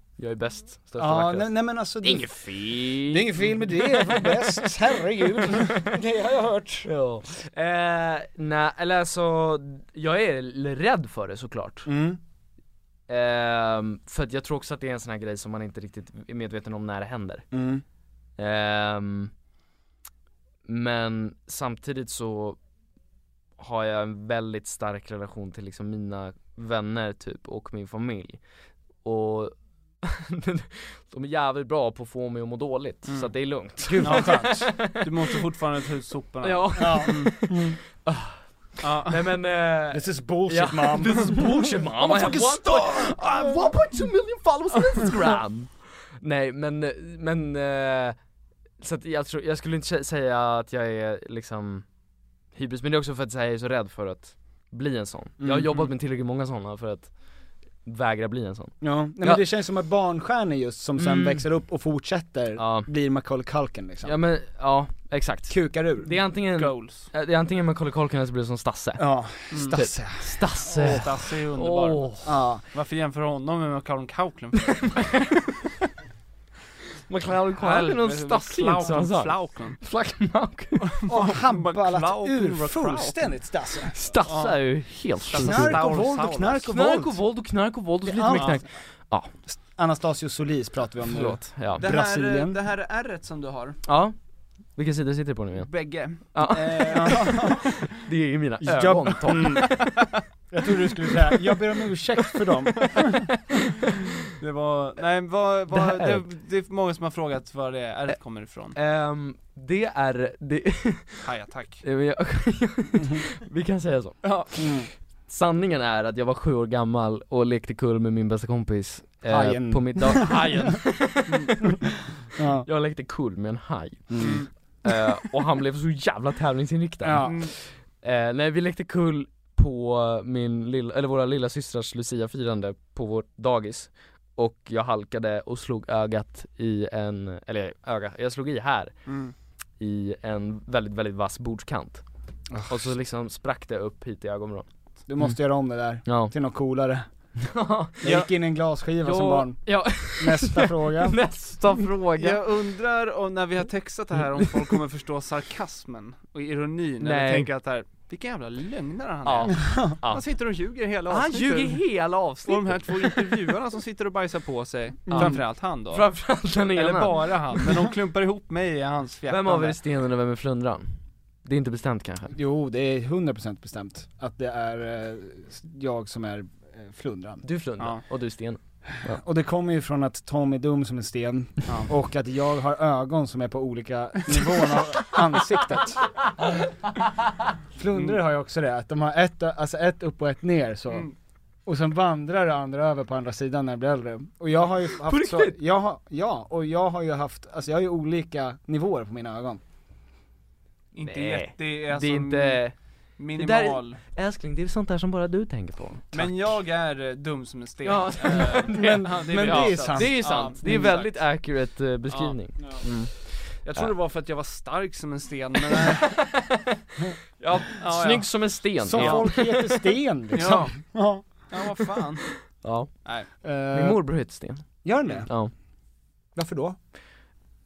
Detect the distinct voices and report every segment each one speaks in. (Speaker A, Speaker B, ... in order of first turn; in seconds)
Speaker A: 0.2-3.3, 4.0-4.3, 6.8-11.9, 13.1-17.4, 18.4-19.3, 20.6-22.6, 23.6-28.4, 29.0-35.0, 36.4-48.2, 48.8-51.9, 52.5-57.2, 57.8-59.4, 61.0-61.5, 62.5-62.9, 64.0-72.3, 74.9-75.5, 77.1-80.9, 83.9-85.9, 86.7-89.3, 91.1-91.8, 93.8-94.1, 94.7-99.8, 105.7-106.2, 108.7-111.2, 111.8-114.6, 115.3-121.7, 122.6-139.1, 139.8-142.0, 142.7-144.7, 146.0-146.3, 147.4-148.2, 149.0-152.4, 157.0-157.5, 159.2-160.3, 161.1-163.4, 165.1-167.6, 169.3-172.3, 177.4-179.2, 195.1-195.5, 201.0-206.6, 207.8-213.9, 215.8-216.6, 217.7-219.6, 222.6-223.1, 223.7-225.5
Speaker B: 1.0-6.9, 11.8-12.2, 17.5-17.8, 33.9-34.7, 36.8-37.8, 39.9-43.6, 55.4-55.9, 58.8-64.2, 65.5-66.1, 69.0-71.0, 72.2-72.6, 81.1-84.0, 85.3-87.2, 88.0-88.7, 89.5-92.6, 96.9-97.7, 98.6-99.9, 100.5-103.3, 114.6-114.9, 119.2-120.8, 122.3-122.7, 124.1-124.5, 127.0-127.5, 142.5-142.9, 145.1-147.1, 148.0-151.3, 165.1-165.4, 172.3-177.4, 179.1-186.1, 187.7-191.1, 191.7-199.6, 208.5-210.9, 218.8-221.2, 223.4-224.0, 224.8-225.3, 226.3-226.8
Speaker C: 33.0-33.3, 33.9-37.3, 38.8-39.3, 66.4-67.1, 69.5-69.8, 70.7-75.1, 77.6-79.8, 80.8-83.2, 84.2-86.7, 88.3-88.6, 91.8-93.8, 95.6-97.6, 99.7-100.0, 104.4-108.8, 111.2-111.8, 114.2-114.5, 124.2-124.5, 127.2-127.5, 139.1-139.3, 151.6-169.8, 181.7-181.9, 200.9-204.0, 206.1-211.2, 212.1-212.9, 213.6-216.3, 217.4-219.4, 220.3-223.3